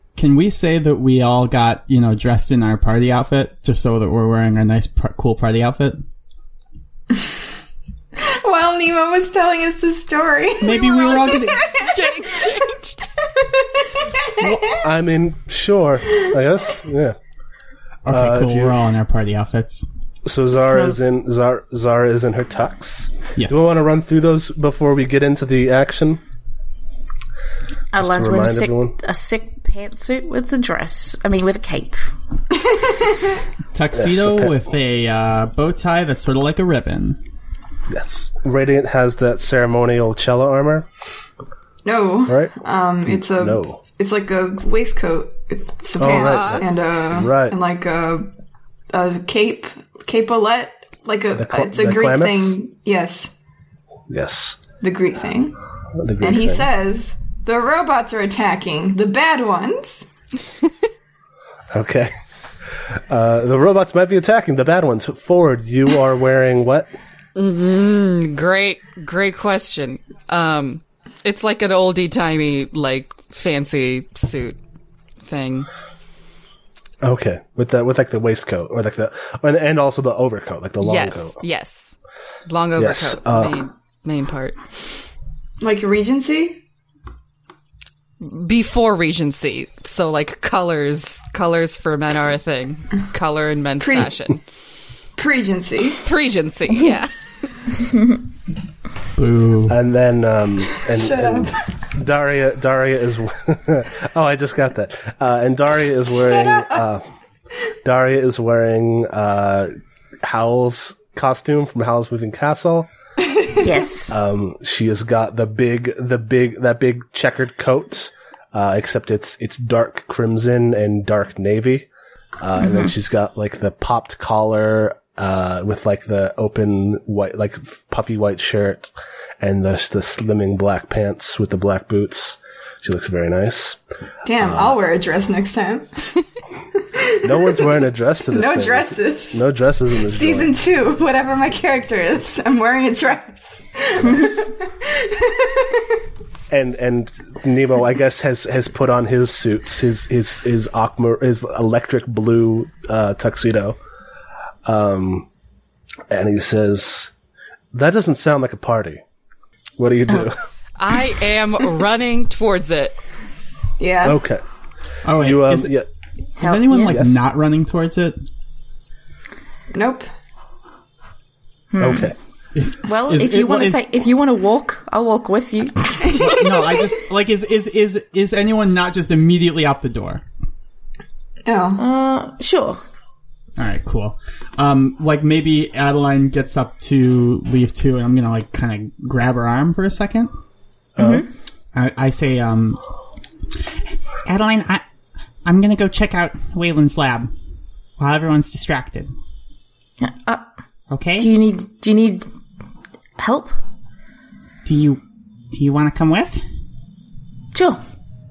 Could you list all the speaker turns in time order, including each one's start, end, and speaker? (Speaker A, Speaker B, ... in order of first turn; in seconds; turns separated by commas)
Speaker A: 0.2-6.0, Speaker B: 8.2-12.5, Speaker A: 10.6-11.6, Speaker C: 11.1-13.0, Speaker B: 13.4-14.6, Speaker D: 14.8-17.2, Speaker A: 18.1-19.9, Speaker D: 18.1-18.8, Speaker D: 20.3-26.2, Speaker E: 27.9-32.0, Speaker D: 28.0-28.9, Speaker B: 32.7-33.4, Speaker A: 33.7-37.2, Speaker D: 33.9-34.6, Speaker D: 37.9-40.9, Speaker B: 41.8-48.3, Speaker D: 42.3-43.8, Speaker D: 46.0-47.6, Speaker C: 46.1-46.6, Speaker B: 48.9-53.4, Speaker D: 51.3-52.6, Speaker D: 54.1-54.6, Speaker B: 54.8-55.6, Speaker D: 56.0-56.7, Speaker B: 56.2-60.1, Speaker D: 61.7-62.1, Speaker D: 62.8-66.9, Speaker C: 67.4-74.6, Speaker C: 75.2-75.7, Speaker D: 77.0-81.4, Speaker C: 80.8-84.6, Speaker D: 82.8-83.6, Speaker B: 85.6-86.6, Speaker C: 88.2-94.4, Speaker B: 93.8-94.4, Speaker B: 95.2-96.0, Speaker C: 96.0-97.6, Speaker A: 99.2-99.8, Speaker D: 99.7-107.0, Speaker B: 100.9-101.5, Speaker B: 106.2-106.8, Speaker D: 107.8-112.9, Speaker E: 113.6-114.2, Speaker D: 114.1-121.9, Speaker D: 122.4-133.8, Speaker E: 122.6-122.9, Speaker B: 134.2-136.2, Speaker D: 134.4-134.8, Speaker B: 136.9-139.5, Speaker D: 137.2-140.5, Speaker B: 140.0-145.9, Speaker D: 146.5-153.8, Speaker D: 154.7-155.3, Speaker D: 156.1-157.1, Speaker D: 157.7-159.0, Speaker D: 159.8-160.4, Speaker C: 160.8-163.0, Speaker B: 163.8-164.2, Speaker D: 164.0-164.4, Speaker A: 165.1-165.7, Speaker D: 165.1-165.9, Speaker A: 166.4-168.2, Speaker E: 166.4-167.0, Speaker D: 166.9-167.2, Speaker B: 169.7-170.1, Speaker E: 171.7-172.1, Speaker D: 171.8-172.2, Speaker A: 172.6-173.8, Speaker E: 172.8-176.4, Speaker A: 176.2-180.2, Speaker B: 181.4-181.8, Speaker E: 181.8-182.8, Speaker A: 183.6-190.3, Speaker D: 191.0-191.2, Speaker E: 191.0-191.3, Speaker A: 191.7-192.8, Speaker A: 194.2-194.8, Speaker A: 195.4-197.3, Speaker A: 198.0-199.1, Speaker E: 200.0-200.4, Speaker A: 200.9-201.3, Speaker E: 201.2-202.3, Speaker E: 203.2-203.6, Speaker A: 204.7-206.4, Speaker E: 207.5-207.8